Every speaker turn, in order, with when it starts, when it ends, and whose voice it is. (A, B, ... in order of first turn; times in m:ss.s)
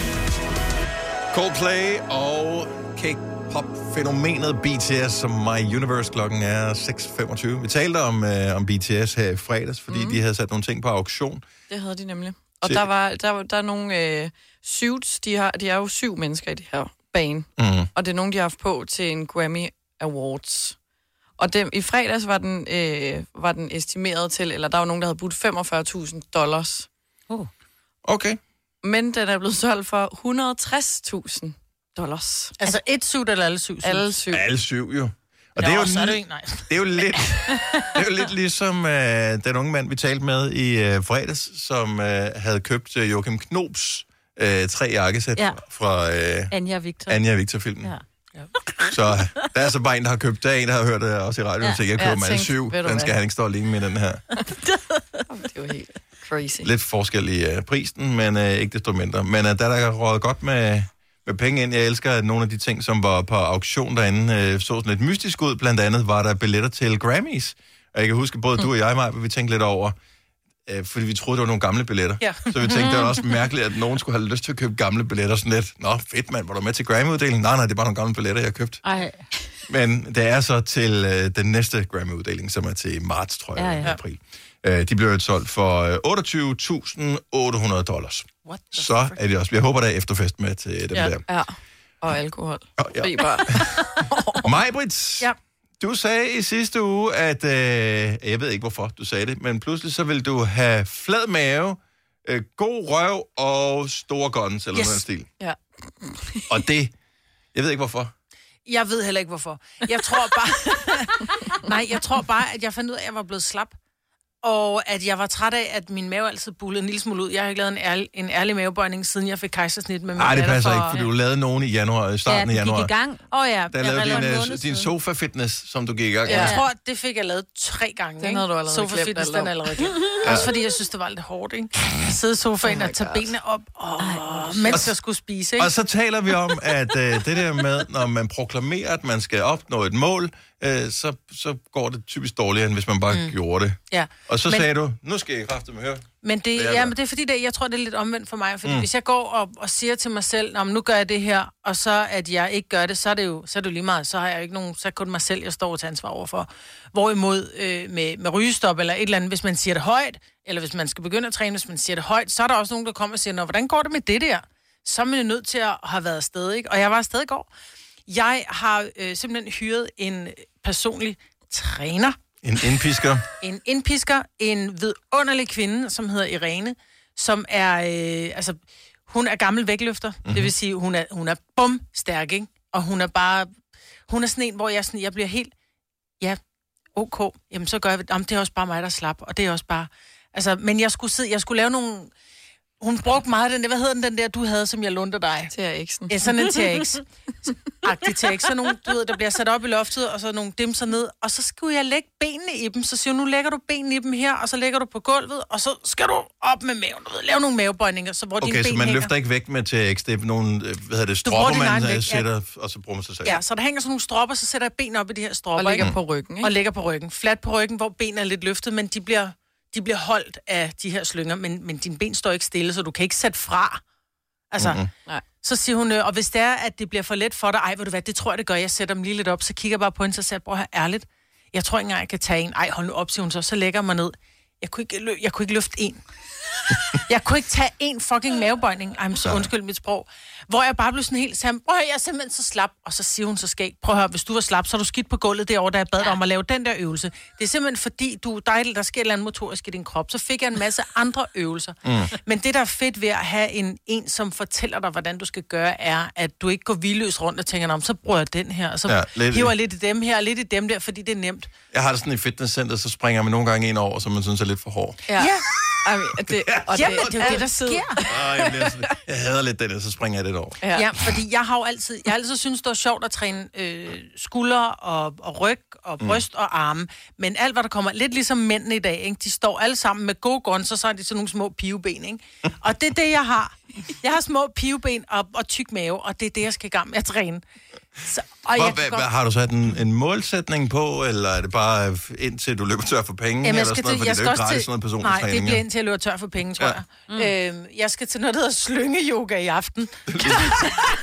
0:01.3-0:11.4 A
0:09.9-0:10.2 B
0:11.7-0:20.8 B
0:17.6-0:17.9 A
0:21.4-0:26.9 B
0:28.0-0:28.4 A
0:28.8-0:32.5 B
0:32.6-0:34.2 C
0:33.8-0:34.4 B
0:34.3-0:46.5 A
0:35.6-0:36.7 C
0:46.5-0:47.2 D
0:47.1-0:47.9 A
0:48.7-0:49.4 D
0:48.9-0:54.2 A
0:52.0-0:53.2 B
0:54.5-0:55.2 D
0:55.3-0:56.7 B
0:56.6-1:10.0 A
1:10.7-1:18.8 A
1:12.2-1:12.8 C
1:12.7-1:13.1 D
1:18.8-1:19.2 D
1:19.7-1:31.2 A
1:23.6-1:23.9 D
1:28.4-1:29.2 C
1:31.3-1:34.4 B
1:32.8-1:33.8 A
1:34.4-1:45.3 A
1:44.7-1:45.0 C
1:45.4-1:46.5 B
1:46.5-1:46.9 A
1:47.5-1:48.1 A
1:48.7-1:53.8 C
1:54.4-2:01.0 C
2:00.2-2:02.9 A
2:02.3-2:04.9 D
2:03.3-2:04.4 C
2:03.7-2:06.6 A
2:06.3-2:06.6 B
2:06.3-2:15.7 C
2:06.4-2:06.6 D
2:08.2-2:09.9 B
2:10.2-2:10.5 A
2:12.6-2:13.3 B
2:14.0-2:14.8 D
2:15.6-2:26.9 A
2:23.9-2:24.7 C
2:26.2-2:47.5 C
2:48.1-2:52.2 C
2:52.4-2:53.2 A
2:53.4-3:03.5 C
3:00.3-3:00.5 A
3:04.1-3:05.5 C
3:07.0-3:12.1 C
3:12.8-3:15.5 C
3:15.5-3:16.2 B
3:16.1-3:17.0 C
3:17.8-3:29.1 C
3:28.4-3:33.4 A
3:31.2-3:32.3 C
3:33.2-3:43.8 C
3:35.6-3:36.5 B
3:44.5-3:44.8 C
3:44.6-3:44.9 A
3:45.4-3:56.0 C
3:57.1-4:21.5 C
4:11.8-4:12.1 A
4:18.9-4:19.5 A
4:21.7-4:25.0 A
4:25.1-4:28.8 B
4:25.2-4:25.4 C
4:26.3-4:27.5 A
4:26.7-4:28.0 C
4:28.1-4:30.6 A
4:30.6-4:30.9 B
4:30.7-4:47.4 C
4:48.0-4:49.1 C
4:48.5-4:55.6 A
4:53.4-5:00.7 C
5:00.1-5:00.6 A